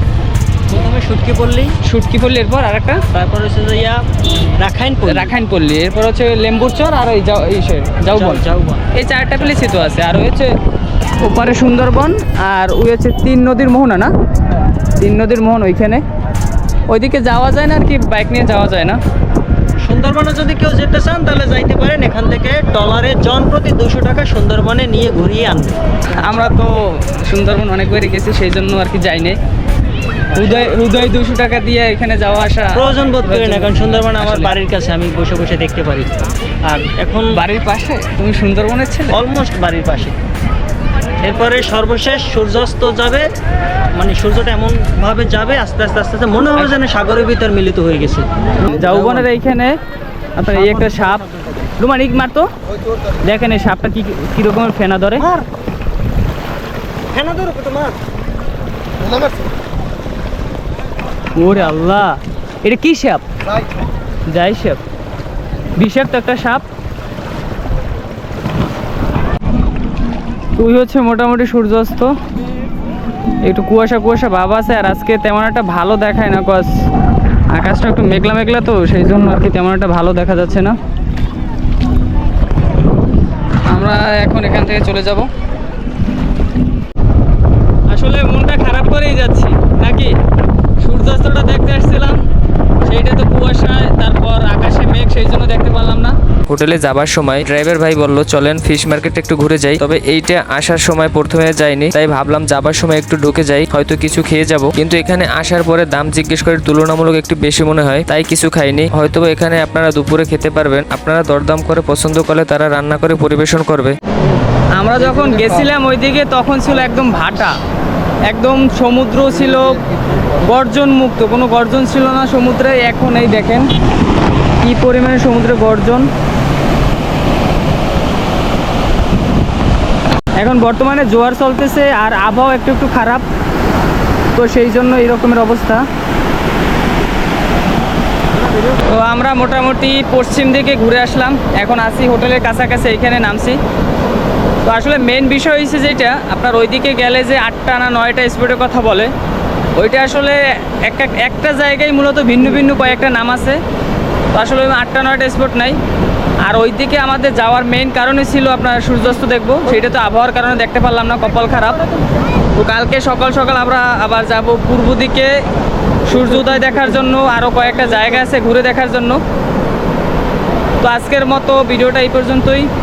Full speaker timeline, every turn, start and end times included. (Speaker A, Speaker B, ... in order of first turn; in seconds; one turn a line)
Speaker A: 0.7-1.7
Speaker B: 1.8-3.0
Speaker A: 3.1-5.3
Speaker B: 5.1-8.4
Speaker A: 8.1-8.8
Speaker B: 8.9-10.5
Speaker B: 11.2-14.1
Speaker B: 15.0-16.0
Speaker B: 16.9-19.0
Speaker A: 19.8-26.2
Speaker B: 26.1-29.4
Speaker A: 30.3-30.8
Speaker B: 30.3-34.5
Speaker A: 32.7-36.1
Speaker A: 36.6-37.4
Speaker B: 37.3-39.2
Speaker A: 39.1-40.2
Speaker A: 41.2-43.3
Speaker A: 43.9-49.3
Speaker B: 48.7-49.8
Speaker B: 50.4-51.2
Speaker A: 50.5-51.4
Speaker B: 51.8-52.5
Speaker B: 53.2-55.2
Speaker A: 55.2-55.5
Speaker A: 57.1-58.0
Speaker B: 61.4-63.2
Speaker B: 64.3-64.8
Speaker B: 65.8-66.7
Speaker B: 70.6-72.1
Speaker B: 73.4-76.7
Speaker B: 77.5-80.8
Speaker B: 83.7-85.3
Speaker B: 87.9-90.2
Speaker B: 90.8-92.2
Speaker B: 92.8-96.2
Speaker C: 96.5-114.0
Speaker B: 114.8-117.6
Speaker B: 118.3-119.8
Speaker B: 120.4-123.7
Speaker B: 124.6-126.1
Speaker B: 130.4-133.2
Speaker B: 134.3-135.8
Speaker B: 138.9-143.6
Speaker B: 144.7-149.1
Speaker B: 149.8-153.6
Speaker B: 154.3-155.8
Speaker B: 156.4-161.8
Speaker B: 162.6-165.3
Speaker B: 166.1-169.2
Speaker B: 170.8-172.7